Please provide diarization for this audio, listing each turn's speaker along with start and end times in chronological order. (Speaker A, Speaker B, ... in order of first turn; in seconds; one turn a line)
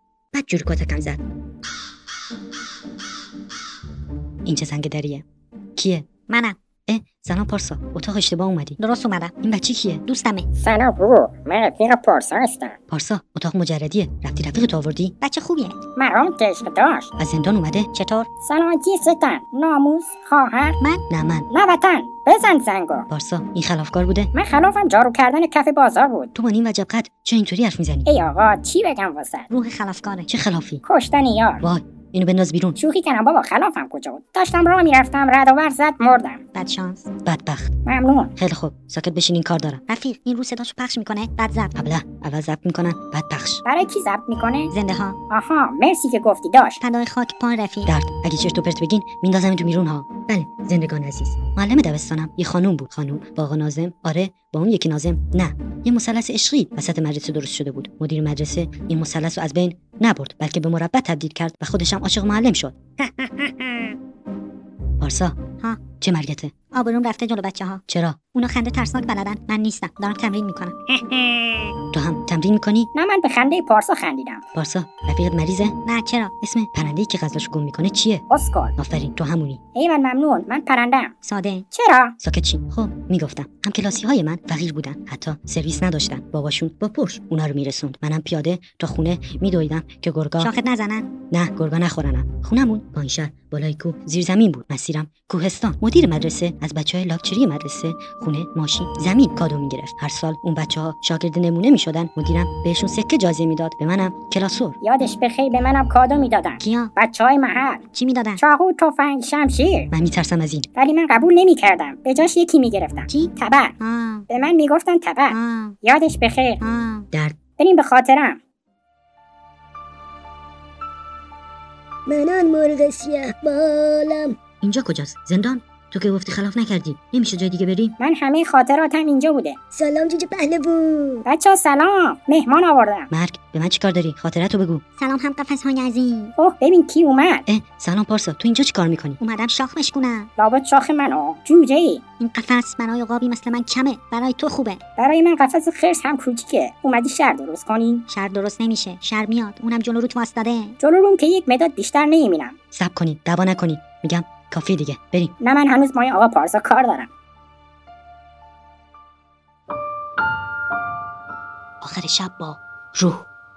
Speaker A: 0.3-1.2
Speaker A: 4.5-5.2
Speaker A: 5.8-6.1
Speaker B: 6.3-6.6
Speaker A: 6.9-8.8
Speaker B: 8.8-9.3
Speaker A: 9.4-10.1
Speaker B: 10.1-10.5
Speaker C: 10.6-12.8
Speaker A: 12.9-15.2
Speaker B: 15.2-15.8
Speaker C: 16.0-17.1
Speaker A: 17.2-17.9
Speaker B: 17.9-18.3
Speaker C: 18.4-20.8
Speaker A: 21.1-21.5
Speaker C: 21.5-23.1
Speaker A: 23.1-24.3
Speaker C: 24.3-26.3
Speaker A: 26.3-28.1
Speaker C: 28.1-29.5
Speaker B: 29.5-30.3
Speaker A: 30.3-30.8
Speaker C: 30.8-31.6
Speaker A: 31.6-32.8
Speaker C: 32.8-36.4
Speaker B: 36.5-37.1
Speaker A: 37.2-37.7
Speaker C: 37.9-38.3
Speaker A: 38.4-39.8
Speaker B: 39.9-41.7
Speaker A: 41.8-43.6
Speaker C: 43.6-44.7
Speaker B: 44.7-45.2
Speaker C: 45.3-46.8
Speaker B: 46.8-47.9
Speaker A: 47.9-62.8
Speaker C: 63.0-63.9
Speaker A: 65.0-65.4
Speaker A: 66.0-66.6
Speaker B: 66.7-67.8
Speaker A: 67.9-68.3
Speaker B: 68.3-70.8
Speaker C: 70.9-71.7
Speaker A: 71.9-72.9
Speaker C: 72.9-74.4
Speaker A: 74.5-75.8
Speaker B: 75.9-76.3
Speaker A: 76.4-78.2
Speaker C: 78.3-78.8
Speaker A: 78.8-79.6
Speaker C: 79.8-81.1
Speaker B: 81.2-81.7
Speaker C: 81.7-82.2
Speaker A: 82.2-90.5
Speaker B: 90.4-91.1
Speaker A: 91.3-104.8
Speaker C: 104.8-107.8
Speaker B: 106.6-106.9
Speaker B: 107.9-108.4
Speaker C: 108.4-109.9
Speaker A: 109.9-110.7
Speaker C: 110.8-113.8
Speaker B: 113.1-114.3
Speaker C: 114.3-116.6
Speaker B: 115.3-115.8
Speaker B: 116.6-117.1
Speaker A: 117.1-117.4
Speaker C: 117.6-118.4
Speaker D: 122.1-124.4
Speaker A: 124.6-128.0
Speaker C: 128.0-129.6
Speaker D: 129.7-131.2
Speaker C: 131.2-133.1
Speaker A: 133.1-134.8
Speaker B: 135.0-136.3
Speaker C: 136.4-137.5
Speaker A: 137.5-139.2
Speaker B: 139.2-140.3
Speaker C: 140.4-142.0
Speaker B: 142.2-144.8
Speaker C: 145.0-148.1
Speaker B: 148.1-150.8
Speaker C: 150.8-152.6
Speaker A: 152.7-155.3
Speaker C: 155.4-157.1
Speaker A: 161.8-163.3